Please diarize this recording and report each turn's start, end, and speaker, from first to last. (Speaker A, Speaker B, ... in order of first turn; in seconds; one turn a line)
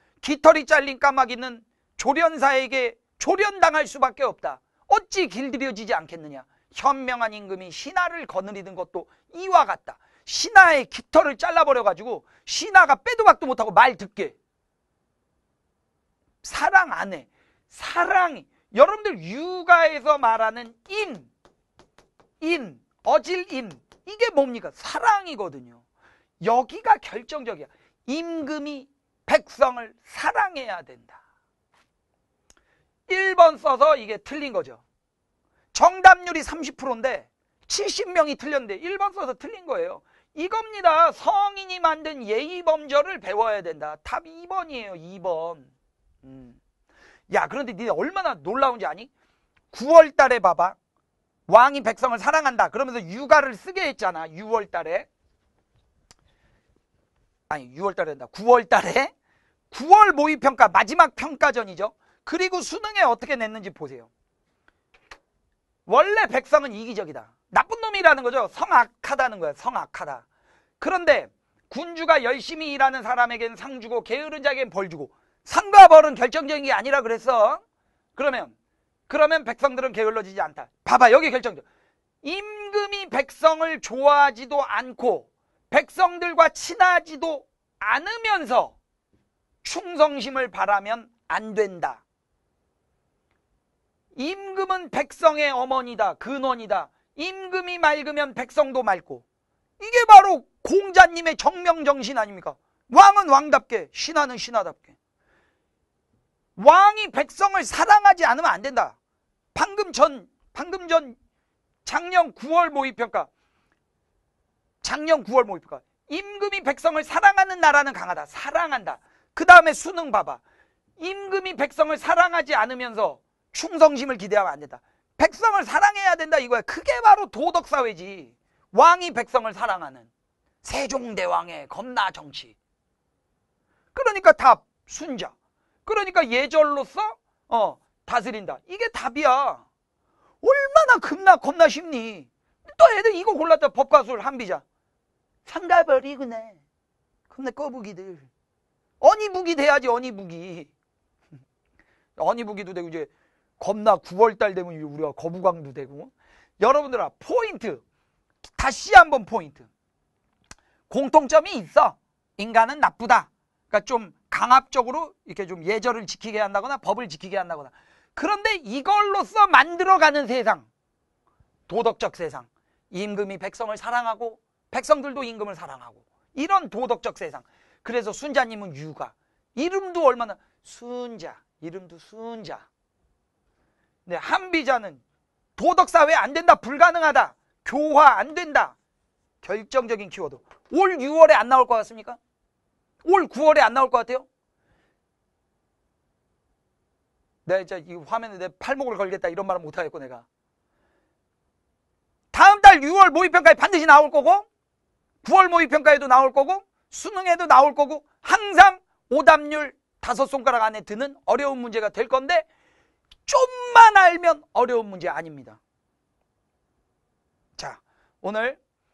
Speaker A: 0.2-14.3
Speaker A: 16.4-21.3
Speaker A: 22.4-25.8
Speaker A: 26.4-31.2
Speaker A: 33.1-34.8
Speaker A: 35.7-45.7
Speaker A: 46.2-46.6
Speaker A: 47.3-49.1
Speaker A: 49.7-50.8
Speaker A: 51.5-55.1
Speaker A: 57.5-59.1
Speaker A: 59.7-64.1
Speaker A: 65.9-70.2
Speaker A: 70.8-77.6
Speaker A: 78.2-78.5
Speaker A: 79.1-81.6
Speaker A: 82.2-88.8
Speaker A: 89.6-92.0
Speaker A: 94.2-99.2
Speaker A: 99.8-104.9
Speaker A: 106.6-109.0
Speaker A: 109.5-111.2
Speaker A: 111.8-113.3
Speaker A: 114.8-120.4
Speaker A: 121.0-130.1
Speaker A: 130.6-132.6
Speaker A: 133.9-135.3
Speaker A: 135.8-139.6
Speaker A: 140.4-144.6
Speaker A: 145.4-146.6
Speaker A: 147.3-148.3
Speaker A: 149.0-150.7
Speaker A: 152.2-157.8
Speaker A: 158.5-159.7
Speaker A: 160.9-170.7
Speaker A: 171.7-182.7
Speaker A: 184.1-185.0
Speaker A: 185.6-188.8
Speaker A: 189.4-192.2
Speaker A: 193.0-194.3
Speaker A: 197.4-200.2
Speaker A: 202.3-204.5
Speaker A: 205.2-212.5
Speaker A: 213.2-215.6
Speaker A: 217.6-218.6